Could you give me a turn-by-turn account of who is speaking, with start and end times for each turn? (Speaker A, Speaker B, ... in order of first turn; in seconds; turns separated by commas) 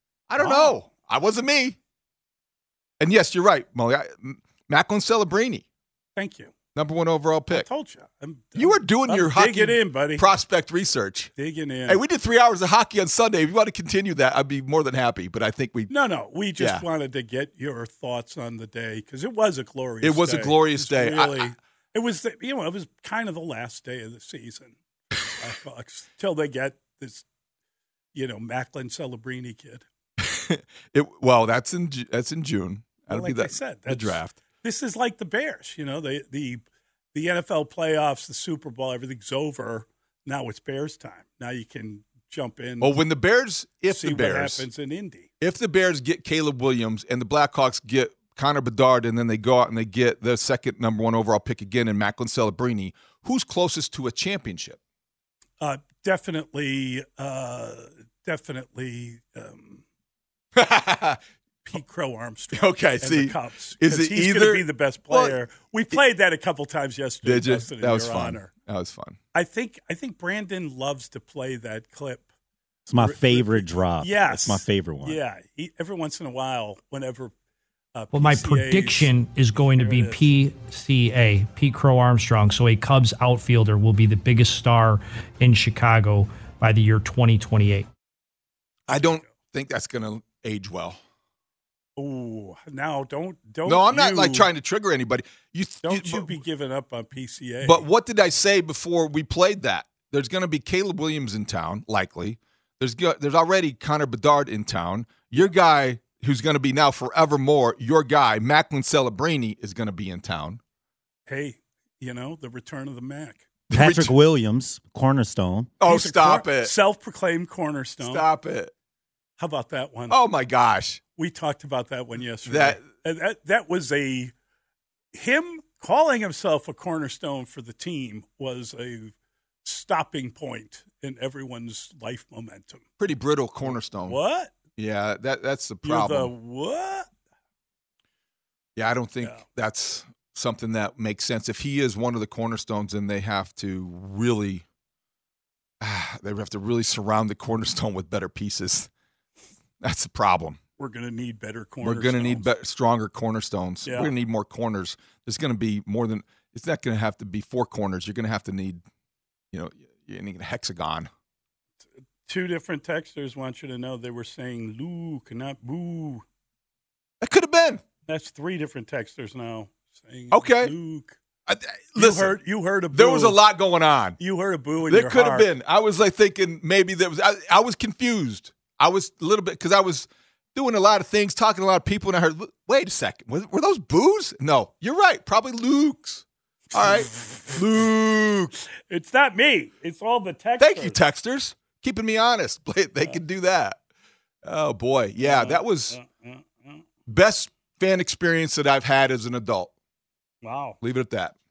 Speaker A: 0.3-1.8, Speaker B: 0.4-0.9, Speaker A: 3.0-5.6, Speaker B: 6.2-6.5, Speaker A: 6.8-7.7, Speaker B: 7.5-10.3, Speaker A: 8.6-11.3, Speaker B: 11.4-12.0, Speaker A: 11.9-15.9, Speaker B: 15.9-27.2, Speaker A: 16.6-16.9, Speaker A: 20.0-21.5, Speaker B: 28.1-29.9, Speaker A: 30.2-34.4, Speaker B: 33.1-36.6, Speaker B: 37.1-43.0, Speaker A: 42.8-44.7, Speaker B: 43.9-45.3, Speaker A: 45.4-54.8, Speaker B: 55.6-59.8, Speaker A: 60.6-61.2, Speaker B: 61.6-68.5, Speaker A: 62.5-65.4, Speaker A: 67.2-69.2, Speaker B: 69.3-72.3, Speaker C: 72.9-75.2, Speaker B: 73.0-77.3, Speaker B: 78.0-80.4, Speaker D: 78.1-87.9, Speaker A: 88.9-91.0, Speaker B: 92.0-94.5, Speaker A: 93.7-96.4, Speaker B: 95.8-97.9, Speaker A: 97.6-110.6, Speaker B: 111.3-113.4, Speaker A: 113.7-114.2, Speaker C: 113.7-115.7, Speaker A: 115.8-116.7, Speaker B: 115.8-118.3, Speaker A: 118.0-118.7, Speaker B: 119.4-120.2, Speaker A: 120.1-121.0, Speaker B: 121.2-124.3, Speaker A: 122.4-122.9, Speaker B: 125.1-129.1, Speaker B: 129.7-132.8, Speaker A: 133.0-134.2, Speaker B: 133.6-134.6, Speaker A: 134.8-136.3, Speaker B: 135.8-137.1, Speaker A: 138.8-144.6, Speaker A: 145.8-148.9, Speaker A: 149.8-150.6, Speaker B: 150.8-152.5, Speaker A: 151.8-158.8, Speaker B: 153.8-154.1, Speaker A: 159.5-161.1, Speaker B: 162.3-166.2, Speaker A: 167.2-167.8, Speaker B: 168.1-171.2, Speaker A: 170.3-170.7, Speaker A: 171.5-172.4, Speaker B: 172.0-173.4, Speaker A: 172.9-174.2, Speaker B: 174.2-175.5, Speaker A: 174.9-188.5, Speaker B: 186.8-187.5, Speaker B: 188.9-191.0, Speaker A: 190.6-193.8, Speaker A: 194.4-196.0, Speaker B: 195.2-196.8, Speaker A: 197.1-199.7, Speaker B: 200.4-200.8, Speaker A: 200.8-201.4